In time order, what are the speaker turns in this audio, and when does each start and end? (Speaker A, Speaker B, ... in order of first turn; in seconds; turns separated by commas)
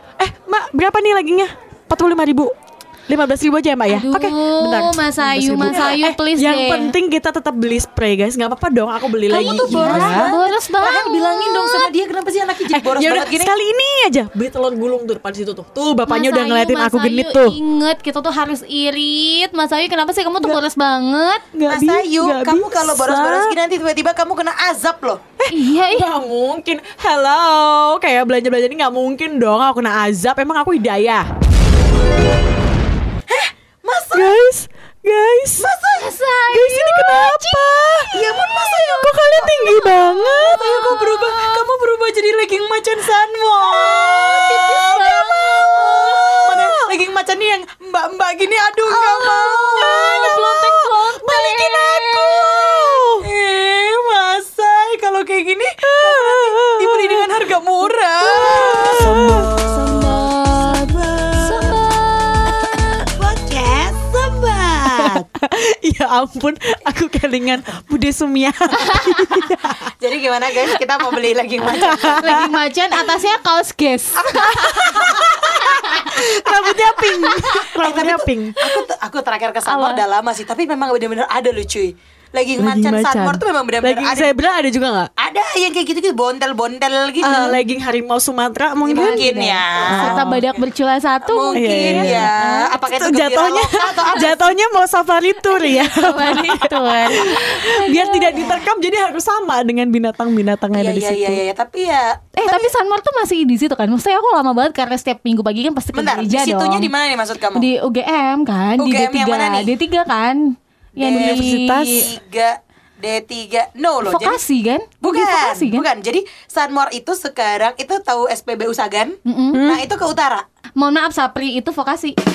Speaker A: 0.2-2.5, Speaker A: 3.1-10.3, Speaker B: 3.9-6.9, Speaker C: 5.6-6.0, Speaker B: 9.3-11.9, Speaker C: 9.3-13.5, Speaker A: 12.7-17.6, Speaker B: 16.1-21.4, Speaker A: 21.5-23.6, Speaker C: 21.7-25.2, Speaker A: 25.4-31.3, Speaker B: 25.5-26.1, Speaker C: 33.3-34.4, Speaker A: 34.1-35.7, Speaker C: 35.6-36.1, Speaker B: 35.7-37.6, Speaker A: 36.5-41.0, Speaker C: 38.1-39.7, Speaker B: 39.7-41.6, Speaker C: 40.4-50.5, Speaker A: 43.8-46.9, Speaker B: 44.2-46.5, Speaker B: 48.9-53.1, Speaker A: 49.9-53.3, Speaker C: 53.2-65.2, Speaker A: 55.9-57.3, Speaker A: 58.3-59.5, Speaker B: 58.3-62.7, Speaker A: 65.0-69.9, Speaker B: 68.8-69.5, Speaker C: 70.0-73.0, Speaker A: 71.8-72.5, Speaker B: 71.8-76.1, Speaker C: 74.2-84.4, Speaker A: 74.3-78.6, Speaker B: 79.7-80.0, Speaker A: 82.6-85.1, Speaker C: 85.2-87.6, Speaker A: 87.2-89.3, Speaker C: 88.8-90.6, Speaker B: 88.9-92.7, Speaker A: 89.8-90.5, Speaker C: 91.2-94.5, Speaker A: 91.5-101.4, Speaker B: 95.5-98.6, Speaker C: 100.7-102.7, Speaker B: 102.4-106.9, Speaker C: 105.9-107.7, Speaker B: 107.5-112.0, Speaker C: 108.8-109.7, Speaker C: 111.0-114.4, Speaker A: 111.1-112.1, Speaker B: 114.0-115.8, Speaker C: 115.0-120.4, Speaker B: 119.3-119.6, Speaker A: 119.5-119.8, Speaker B: 120.8-122.2